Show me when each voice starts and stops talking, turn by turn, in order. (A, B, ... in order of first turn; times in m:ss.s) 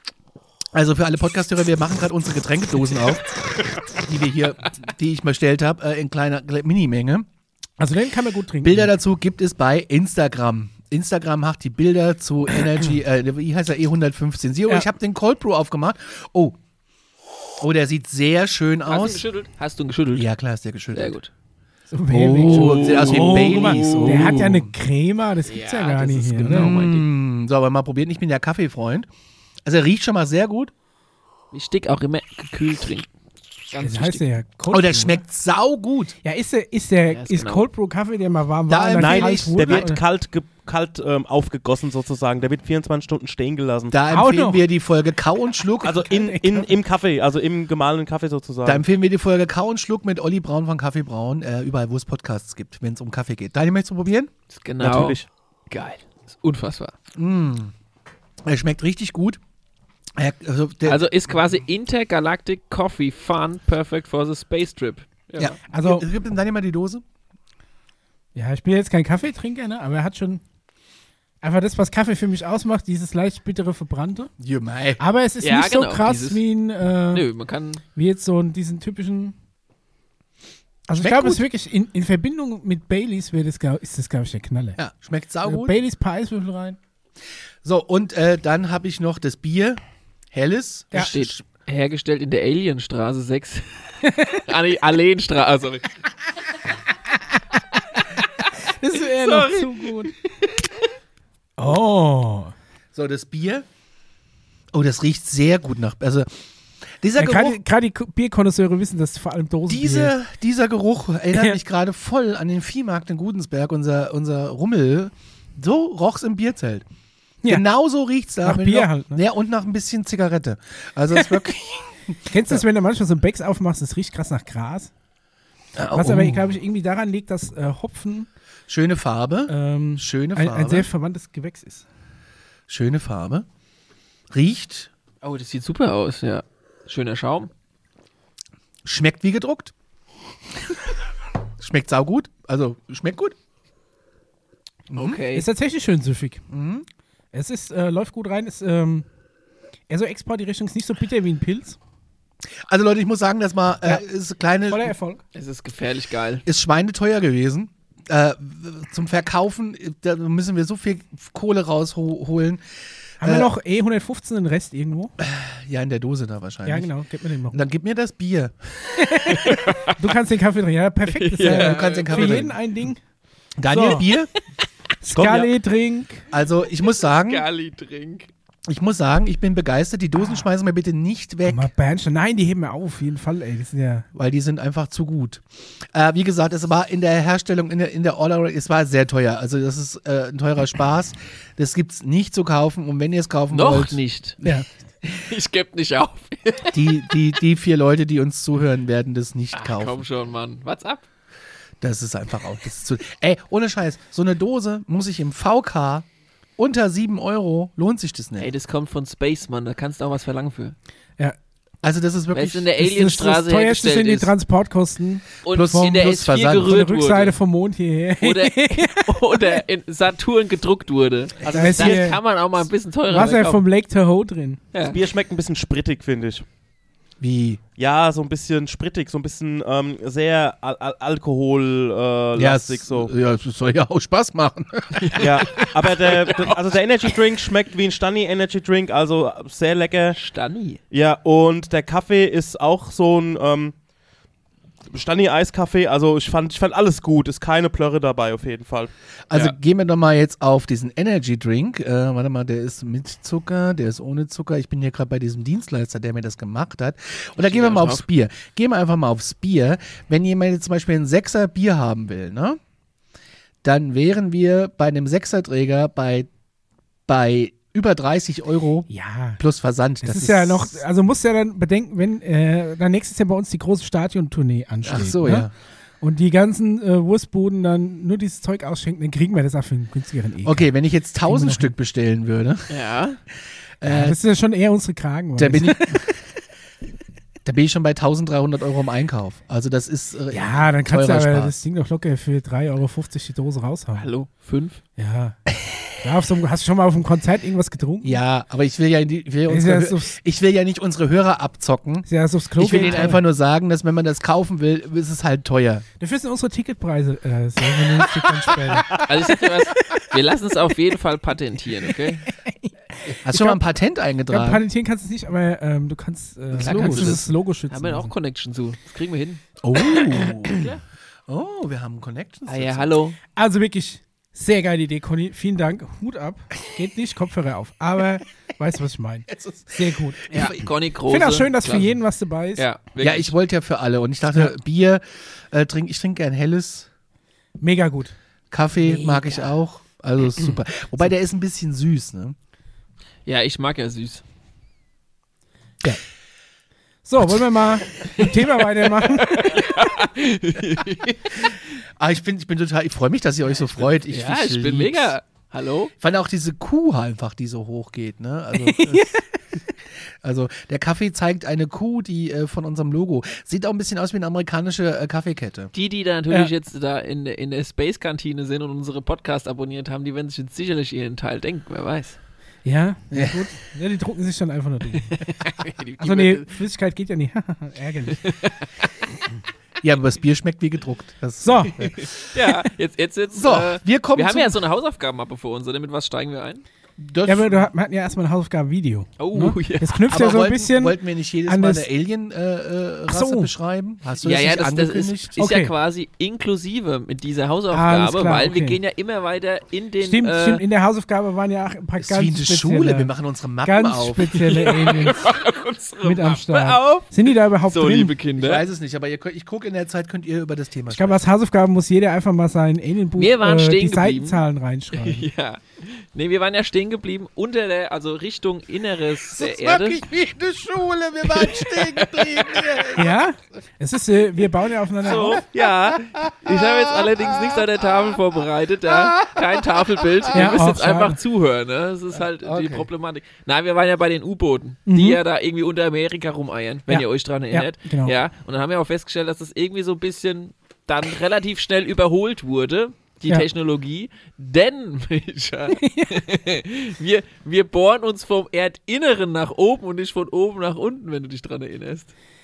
0:00.7-0:07.3 A
0:07.8-0:08.9 B
0:08.6-0:16.6 A
0:17.6-0:19.2 A
0:18.8-0:20.3 C
0:20.1-0:21.2 A
0:20.9-0:21.3 C
0:21.9-0:26.7 B
0:22.1-0:24.7 A
0:22.4-0:24.4 C
0:25.4-0:27.0 C
0:26.5-0:29.1 A
0:29.6-0:30.7 A
0:31.5-0:33.1 C
0:33.7-0:34.2 C
0:33.8-0:35.2 B
0:34.7-0:36.1 A
0:36.2-0:40.0 B
0:37.1-0:37.7 C
0:38.7-0:39.9 A
0:39.0-0:44.0 D
0:43.9-0:46.0 A
0:44.1-0:44.7 B
0:45.8-0:48.8 D
0:46.0-0:46.7 B
0:48.6-0:54.3 A
0:54.5-0:55.2 C
0:54.8-0:55.2 D
0:55.7-0:56.9 C
0:57.1-0:57.7 A
0:58.4-0:59.4 A
1:00.2-1:01.1 A
1:00.8-1:05.5 C
1:05.4-1:07.0 A
1:05.7-1:06.1 B
1:08.3-1:10.4 B
1:11.4-1:14.3 B
1:14.4-1:15.0 A
1:15.0-1:17.2 B
1:15.4-1:16.4 C
1:17.1-1:17.8 C
1:17.9-1:19.3 B
1:20.9-1:24.8 B
1:20.9-1:21.4 A
1:24.8-1:25.8 A
1:25.4-1:26.8 B
1:27.6-1:29.8 A
1:30.3-1:31.4 A
1:30.9-1:35.9 C
1:34.0-1:34.4 B
1:37.6-1:40.1 B
1:38.9-1:40.6 C
1:41.6-1:42.5 B
1:42.9-1:43.6 A
1:44.7-1:46.3 A
1:47.0-1:47.6 A
1:47.2-1:50.1 B
1:49.7-1:56.8 A
1:57.5-2:02.6 A
1:58.4-1:59.2 B
2:02.3-2:04.9 B
2:05.7-2:06.5 A
2:05.9-2:08.3 B
2:08.7-2:10.9 A
2:09.5-2:11.8 B
2:12.7-2:13.4 A
2:14.3-2:14.9 A
2:15.2-2:17.5 C
2:18.8-2:19.7 A
2:21.6-2:23.3 A
2:24.9-2:25.2 A
2:24.9-2:25.5 C
2:25.3-2:26.4 B
2:26.5-2:26.8 A
2:27.3-2:29.0 B
2:29.9-2:31.8 B
2:32.7-2:34.9 A
2:34.7-2:35.2 B
2:35.3-2:36.4 C
2:36.4-2:42.6 A
2:43.2-2:45.1 B
2:43.2-2:43.5 A
2:45.2-2:46.9 A
2:46.6-2:47.6 B
2:47.5-2:49.5 A
2:48.9-2:53.0 B
2:49.5-2:50.0 C
2:51.1-2:52.5 C
2:51.4-2:52.6 A
2:53.6-2:54.3 A
2:53.7-2:54.1 B
2:55.0-2:56.3 B
2:55.2-2:55.5 A
2:56.3-2:57.5 A
2:56.9-2:58.3 C
2:58.7-3:01.7 A
3:01.4-3:04.1 B
3:04.1-3:14.0 A
3:13.5-3:14.4 C
3:15.0-3:17.2 C
3:16.7-3:20.0 A
3:19.5-3:21.0 C
3:21.8-3:26.0 A
3:26.6-3:28.5 A
3:28.4-3:30.7 C
3:31.8-3:32.7 A
3:32.3-3:34.3 C
3:32.8-3:35.3 B
3:35.4-3:37.3 C
3:35.5-3:36.8 A
3:36.6-3:39.6 B
3:38.2-3:43.6 C
3:41.5-3:42.0 D
3:41.5-3:42.2 B
3:43.1-3:44.6 B
3:44.7-3:45.0 C
3:44.8-3:46.4 D
3:47.2-3:47.6 A
3:47.8-3:53.1 D
3:52.3-3:56.0 A
3:54.9-3:56.5 C
3:55.2-4:00.2 D
4:00.1-4:00.8 C
4:00.9-4:03.7 D
4:04.9-4:09.5 D
4:09.3-4:22.6 A
4:17.4-4:18.0 C
4:23.6-4:26.3 A
4:27.1-4:30.8 A
4:28.9-4:29.4 B
4:30.0-4:35.5 B
4:34.8-4:35.5 A
4:36.0-4:40.7 B
4:40.4-4:42.7 A
4:41.2-4:41.7 B
4:42.7-4:43.2 C
4:43.8-4:44.2 A
4:43.8-4:46.2 B
4:45.4-4:46.1 A
4:47.4-4:51.5 A
4:50.3-4:54.1 B
4:54.0-4:54.8 C
4:55.0-4:55.4 B
4:56.0-4:58.2 B
4:58.0-5:05.8 A
4:59.5-5:00.2 B
5:02.0-5:03.2 B
5:02.7-5:03.1 C
5:06.0-5:09.0 B
5:08.7-5:09.0 A
5:08.9-5:12.2 C
5:12.2-5:13.6 B
5:13.1-5:14.6 A
5:14.3-5:18.1 B
5:16.5-5:17.2 A
5:16.6-5:20.8 C
5:19.6-5:20.7 A
5:21.3-5:23.0 A
5:22.5-5:23.2 C
5:23.4-5:30.3 B
5:29.3-5:30.7 A
5:30.3-5:32.0 C
5:31.1-5:32.6 B
5:32.6-5:33.3 C
5:33.0-5:36.9 A
5:37.6-5:38.1 B
5:38.5-5:42.4 A
5:38.8-5:39.5 C
5:43.2-5:44.2 C
5:47.0-5:49.7 B
5:48.2-5:51.7 C
5:52.0-5:55.1 A
5:54.1-5:55.9 C
5:56.0-5:59.1 A
5:58.5-5:59.4 B
6:00.2-6:05.7 A
6:05.7-6:12.2 C
6:12.6-6:15.2 B
6:13.1-6:13.4 A
6:15.0-6:16.5 C
6:16.0-6:18.2 B
6:18.1-6:18.6 C
6:19.8-6:22.1 A
6:21.4-6:21.9 B
6:22.0-6:26.6 C
6:23.3-6:24.6 A
6:27.0-6:27.7 A
6:27.2-6:31.9 B
6:29.2-6:30.0 C
6:30.1-6:35.3 A
6:33.1-6:33.5 B
6:34.2-6:40.6 C
6:35.4-6:35.7 B
6:37.7-6:38.8 B
6:40.0-6:43.1 B
6:42.0-6:44.4 A
6:43.6-6:45.2 B
6:44.4-6:48.6 C
6:46.0-6:48.1 B
6:48.4-6:51.2 A
6:50.9-6:55.3 B
6:53.2-7:00.0 C
6:59.3-7:03.2 A
7:01.2-7:02.9 C
7:02.9-7:05.4 B
7:05.0-7:32.1 C
7:06.0-7:07.6 A
7:08.8-7:10.2 A
7:10.3-7:11.2 B
7:12.1-7:12.9 A
7:14.9-7:15.2 B
7:16.9-7:18.2 B
7:25.7-7:26.4 B